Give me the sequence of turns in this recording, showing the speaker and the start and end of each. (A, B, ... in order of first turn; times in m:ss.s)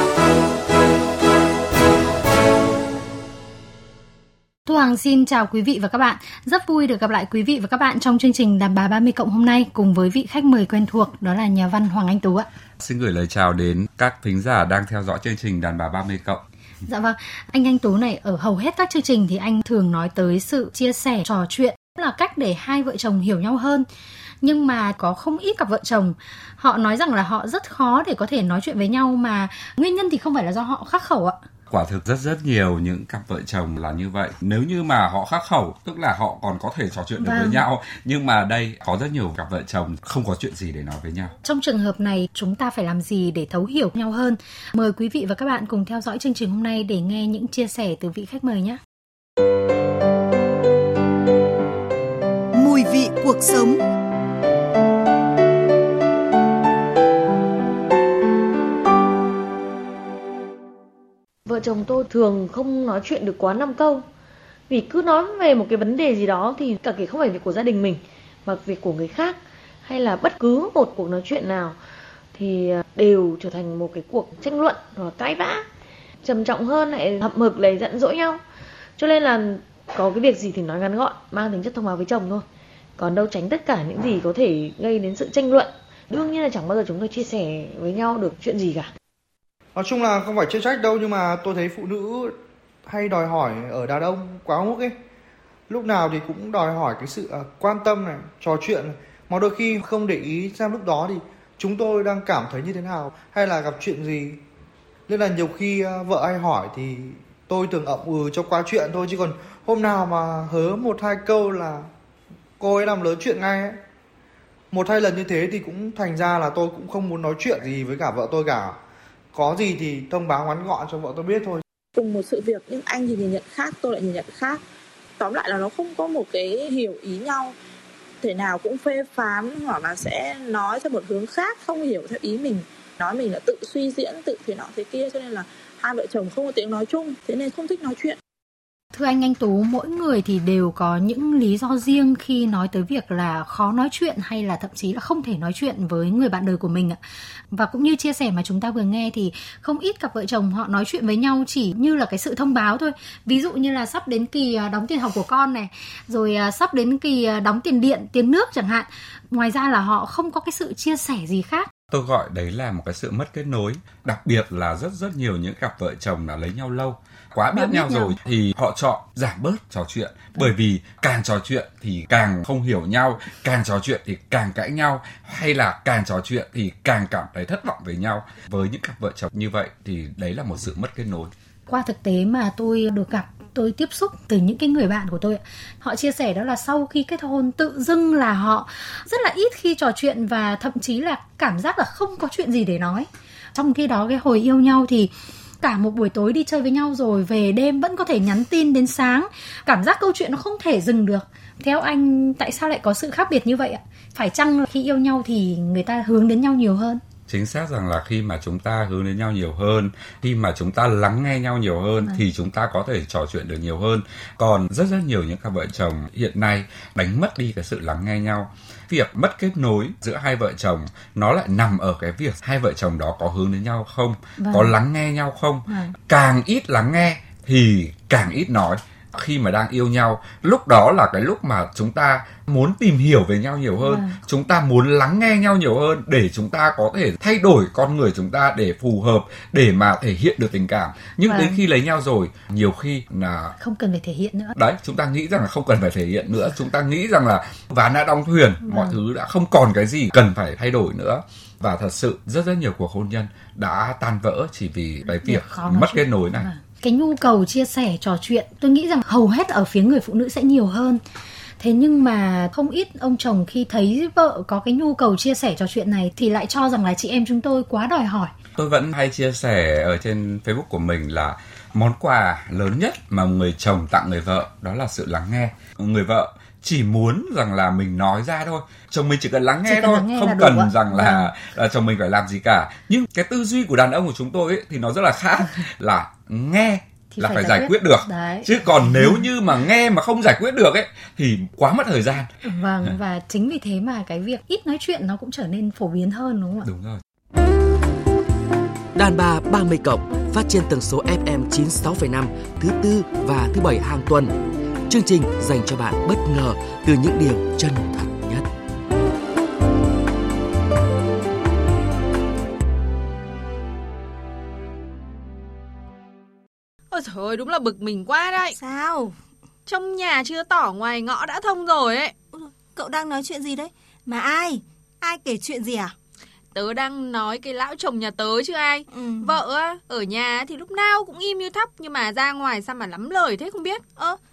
0:04.7-0:12.5 A
0:12.8-0:16.4 B
0:16.9-0:23.9 A
0:24.4-0:31.4 A
0:31.7-0:41.3 B
0:37.2-0:37.6 A
0:41.4-0:48.8 A
0:52.5-0:53.8 C
1:01.5-1:04.1 D
1:04.7-1:11.8 D
1:12.3-1:15.6 D
1:16.2-1:18.4 D
1:19.0-1:22.5 D
1:23.0-1:28.9 D
1:29.8-1:32.3 E
1:32.9-1:34.9 E
1:35.7-1:44.4 E
1:45.1-1:51.9 E
1:52.6-1:53.8 E
1:54.7-1:58.8 E
1:59.3-2:01.6 E
2:02.0-2:04.6 F
2:05.2-2:07.5 F
2:08.2-2:18.2 F
2:18.9-2:27.0 A
2:27.5-2:41.7 A
2:41.9-3:01.3 B
2:47.5-2:48.2 A
3:01.7-3:15.1 A
3:15.6-3:27.0 A
3:27.3-4:03.6 B
3:44.4-3:44.7 A
3:45.7-3:46.0 A
3:53.8-3:54.2 A
4:01.2-4:01.6 A
4:03.6-4:04.6 A
4:04.6-4:16.5 B
4:08.6-4:09.0 A
4:15.1-4:21.0 A
4:21.6-4:28.3 A
4:28.6-4:52.3 B
4:39.6-4:41.3 A
4:47.1-4:48.5 A
4:52.4-4:56.7 A
4:56.6-4:57.0 B
4:59.0-5:04.3 C
5:04.9-5:08.5 C
5:16.9-5:18.6 G
5:18.4-5:19.2 H
5:19.7-5:22.1 G
5:22.3-5:26.0 H
5:26.5-5:33.8 G
5:28.9-5:29.4 H